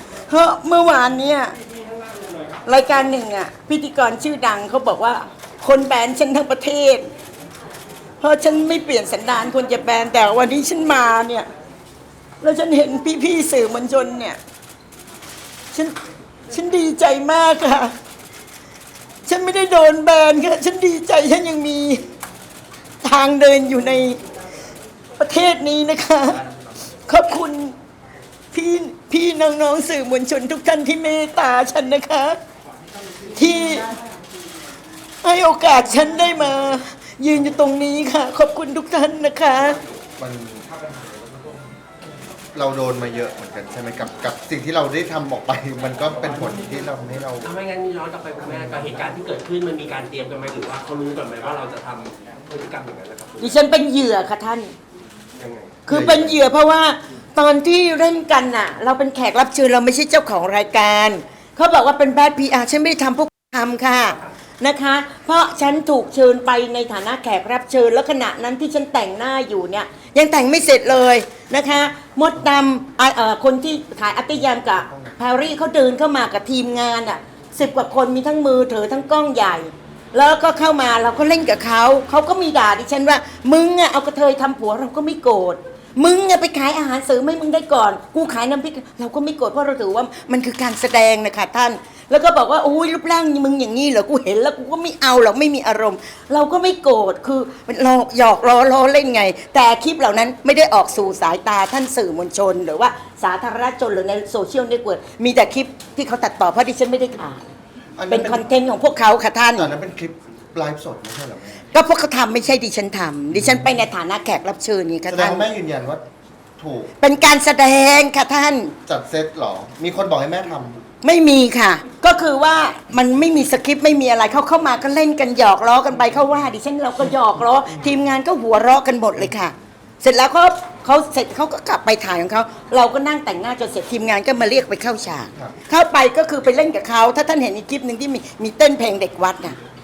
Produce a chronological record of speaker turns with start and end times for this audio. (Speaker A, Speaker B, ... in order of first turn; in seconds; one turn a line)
Speaker A: 0.3-1.5
Speaker A: 2.6-7.1
Speaker A: 8.2-11.5
Speaker A: 12.4-14.4
Speaker A: 16.5-17.9
Speaker A: 19.2-22.0
Speaker A: 23.0-24.2
Speaker A: 25.2-26.4
Speaker A: 27.1-27.7
Speaker A: 28.5-32.4
Speaker A: 33.4-33.9
Speaker A: 35.2-39.8
Speaker B: 40.2-40.7
Speaker B: 42.5-47.5
Speaker C: 47.4-53.5
Speaker A: 53.4-54.7
Speaker C: 55.4-55.8
Speaker A: 55.9-107.4
Speaker B: 55.9-56.4
Speaker B: 108.0-108.4
Speaker A: 108.1-109.7
Speaker B: 109.5-111.7
Speaker A: 111.7-115.4
Speaker B: 115.1-116.0
Speaker B: 116.6-116.9
Speaker A: 117.0-118.7
Speaker B: 118.9-120.8
Speaker A: 121.0-139.6